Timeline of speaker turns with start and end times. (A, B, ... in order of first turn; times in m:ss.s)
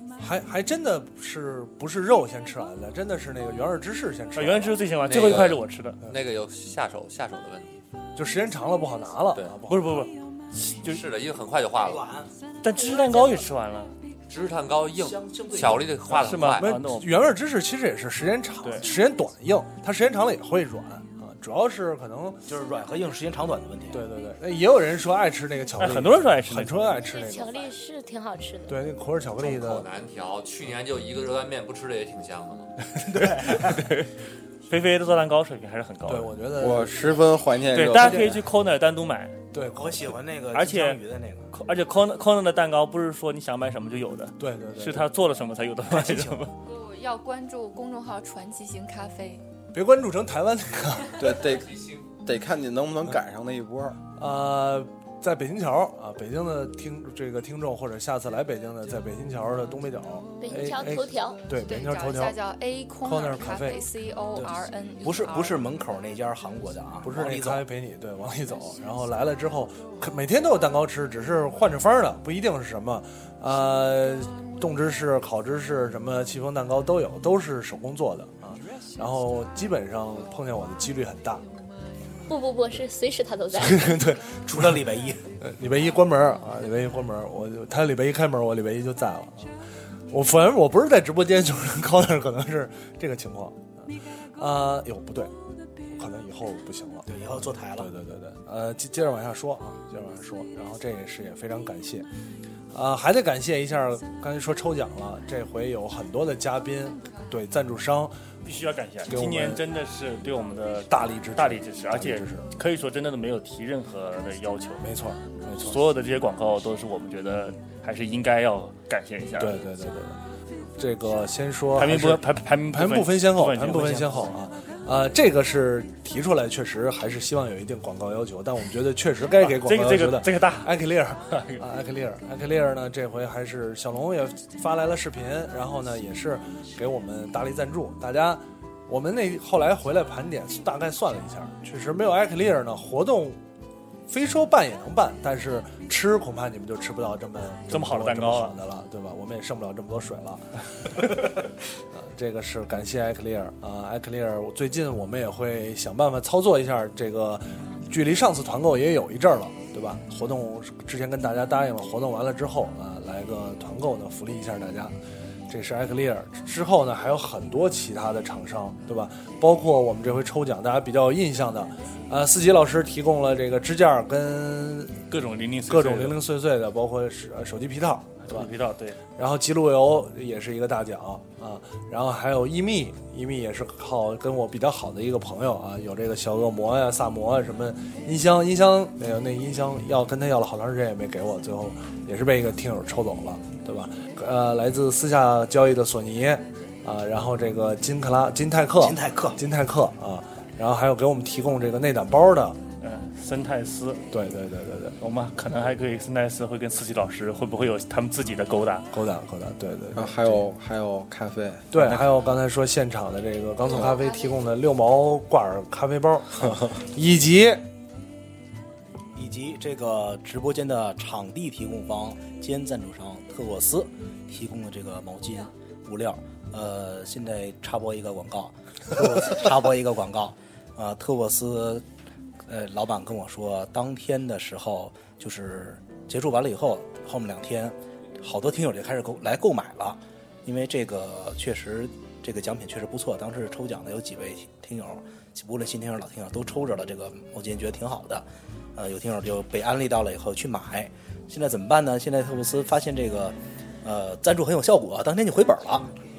0:00.2-0:04.8 A
0:04.4-0:06.0 B
0:05.0-0:07.8 C
0:08.2-0:10.1 A
0:09.7-0:11.0 B
0:10.8-0:12.1 C
0:11.7-0:12.3 D
0:12.6-0:13.9 B
0:13.1-0:13.4 E
0:14.3-0:16.8 C
0:14.9-0:16.4 D
0:16.1-0:17.2 B
0:16.5-0:22.4 A
0:18.6-0:18.9 B
0:22.5-0:24.0 D
0:23.9-0:27.7 A
0:25.8-0:27.0 B
0:27.0-0:28.8 E
0:28.7-0:29.9 A
0:29.4-0:32.7 C
0:33.0-0:33.8 D
0:33.5-0:34.1 B
0:34.7-0:36.3 B
0:36.0-0:37.1 A
0:36.6-0:38.4 F
0:37.7-0:39.4 B
0:37.9-0:38.4 A
0:39.5-0:40.2 A
0:39.7-0:41.5 D
0:40.5-0:41.0 B
0:41.5-0:46.5 B
0:44.4-0:45.1 A
0:45.9-0:46.4 D
0:46.6-0:49.4 G
0:49.7-0:51.4 A
0:51.2-0:54.0 F
0:51.8-0:52.0 C
0:54.2-1:02.4 A
1:00.4-1:01.4 E
1:01.6-1:05.6 G
1:03.0-1:03.8 A
1:04.4-1:07.6 D
1:07.0-1:21.4 A
1:22.3-1:24.0 E
1:23.5-1:24.5 A
1:24.3-1:25.2 D
1:25.4-1:29.6 A
1:30.1-1:35.4 A
1:35.9-1:37.1 A
1:37.1-1:37.9 D
1:37.8-1:42.1 A
1:42.7-1:48.2 A
1:48.4-1:54.9 B
1:49.1-1:49.6 A
1:50.9-1:52.5 A
1:54.8-1:55.8 A
1:55.6-1:59.6 B
1:59.4-2:00.2 A
2:00.8-2:23.4 A
2:01.8-2:04.4 B
2:09.4-2:10.7 B
2:11.3-2:11.6 B
2:24.1-2:31.4 A
2:27.7-2:28.6 B
2:31.9-2:45.0 A
2:45.5-2:55.0 A
2:55.1-2:56.2 B
2:55.7-2:58.5 A
2:58.3-2:59.0 B
2:59.2-3:22.6 A
3:18.8-3:19.4 D
3:22.8-3:24.0 B
3:24.1-3:25.0 A
3:25.0-3:28.9 B
3:28.9-3:30.4 A
3:30.0-3:31.8 F
3:31.7-3:37.6 A
3:39.2-3:51.8 D
3:52.5-4:15.9 D